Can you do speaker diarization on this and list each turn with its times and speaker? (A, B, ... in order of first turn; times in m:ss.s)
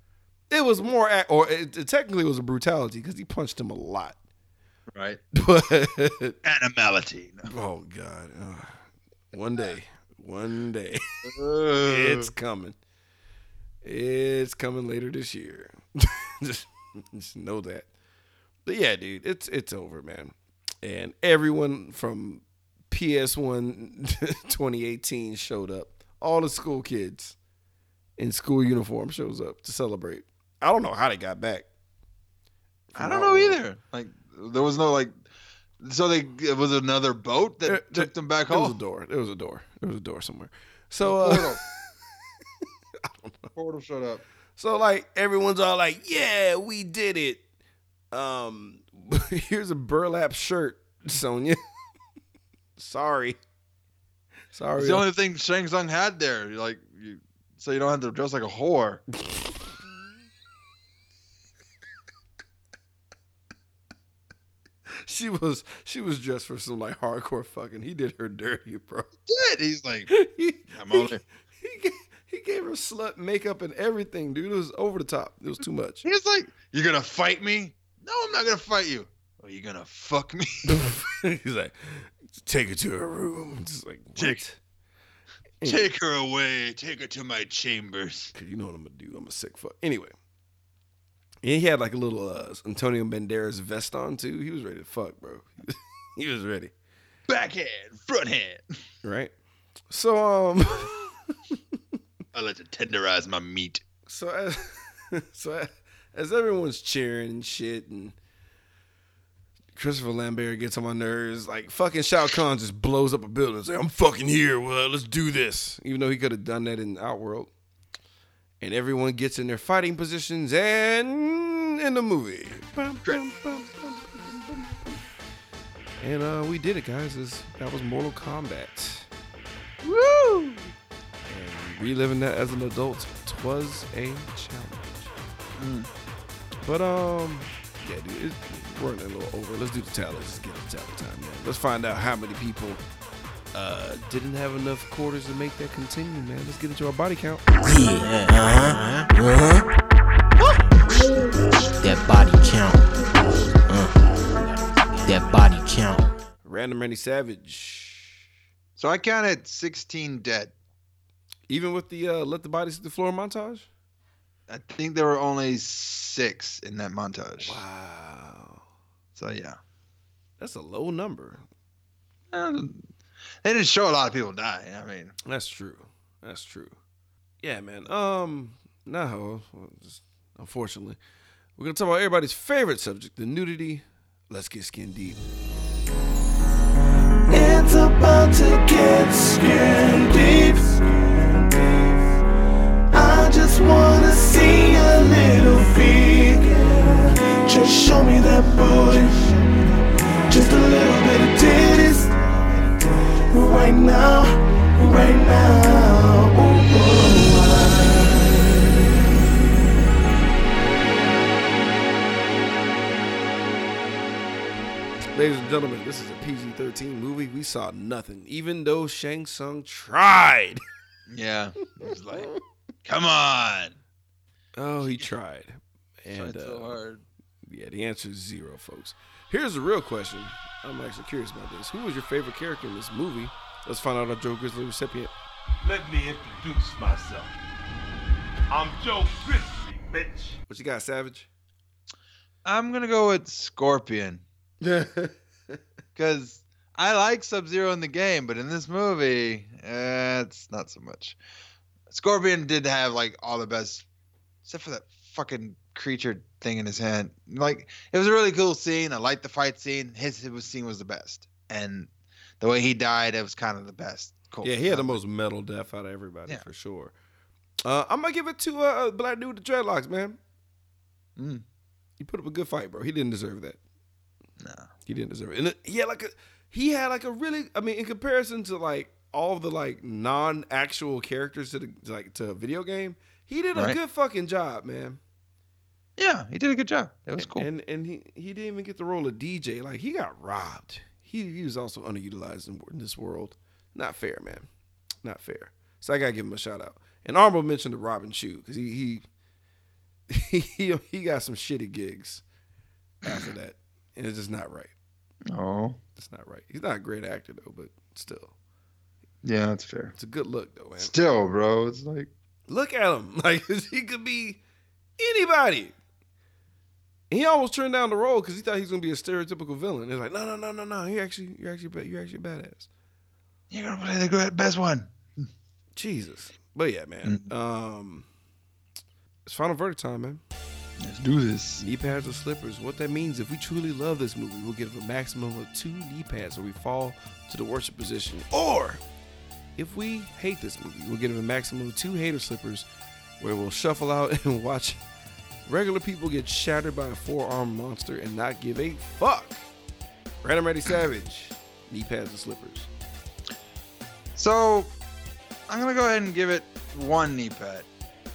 0:00.5-0:04.2 A
0:04.9-0:05.2 B
0:05.3-0:06.4 A
0:06.4-0:07.5 B
0:07.5-0:08.8 A
0:09.3-0:11.3 A
0:11.2-0:12.3 B
0:11.8-0:12.8 A
0:13.8-0:17.9 A
0:18.6-0:27.4 A
0:28.2-0:31.6 A
0:32.9-0:33.6 A
0:33.0-0:35.1 B
0:35.8-0:38.8 B
0:37.6-0:41.9 A
0:41.0-0:41.6 B
0:43.0-0:43.5 A
0:43.5-0:44.2 B
0:44.6-0:47.4 A
0:48.1-0:51.6 A
0:52.8-0:53.4 A
0:54.5-0:55.0 A
0:54.8-0:59.0 B
1:05.0-1:09.1 A
1:09.3-1:10.1 B
1:10.1-1:11.1 A
1:10.7-1:11.2 B
1:11.6-1:16.0 A
1:16.0-1:20.7 B
1:20.7-1:24.6 A
1:25.6-1:25.9 A
1:25.6-1:28.3 B
1:28.3-1:30.1 A
1:31.4-1:36.7 A
1:37.3-1:38.6 B
1:39.0-1:39.3 A
1:39.9-1:41.6 A
1:42.3-1:43.8 B
1:44.1-1:48.2 A
1:49.7-1:57.5 A
1:58.6-2:05.0 A
2:06.0-2:09.1 A
2:09.8-2:10.7 B
2:11.3-2:15.1 A
2:15.6-2:15.9 B
2:16.6-2:22.8 A
2:23.5-2:27.4 A
2:27.6-2:29.7 C
2:31.6-2:34.1 C
2:34.9-2:36.1 C
2:36.4-2:38.1 A
2:38.8-2:40.5 B
2:41.5-2:43.7 A
2:44.5-2:47.6 B
2:47.4-2:48.6 A
2:49.2-2:49.6 B
2:50.4-2:51.4 A
2:52.3-2:52.9 B
2:53.4-2:55.1 B
2:55.2-2:56.8 A
2:57.4-3:01.0 A
3:01.6-3:05.3 A
3:07.3-3:12.0 D
3:12.9-3:19.8 D
3:20.3-3:28.2 D
3:35.1-3:40.6 A
3:41.1-3:42.3 B
3:42.8-3:43.8 B
3:44.6-3:46.8 A
3:46.1-3:47.0 B
3:47.4-3:55.1 A
3:55.6-3:57.4 E
3:58.5-4:00.4 E
4:00.5-4:01.3 A
4:02.4-4:04.2 B
4:04.6-4:05.6 A
4:06.0-4:11.2 B
4:11.9-4:13.8 B
4:14.4-4:25.0 B
4:24.4-4:26.9 A
4:27.6-4:30.2 A
4:31.2-4:31.4 B
4:32.0-4:33.6 A
4:34.4-4:34.7 B
4:34.8-4:45.0 A
4:46.0-4:47.5 B
4:47.2-4:54.5 A
4:55.0-4:59.0 A
5:00.1-5:02.2 A
5:03.0-5:04.7 A
5:05.3-5:05.8 B
5:06.0-5:08.3 A
5:09.2-5:09.9 B
5:10.0-5:10.9 A
5:10.8-5:12.1 B
5:12.5-5:14.4 A
5:15.0-5:15.7 A
5:17.1-5:22.7 A
5:23.5-5:25.3 B
5:25.8-5:28.0 A
5:29.2-5:30.2 A
5:30.8-5:31.6 B
5:31.6-5:38.8 A
5:39.6-5:42.6 A
5:43.2-5:44.8 A
5:45.4-5:49.4 A
5:50.2-5:52.7 A
5:54.1-5:54.7 B
5:55.5-5:57.7 B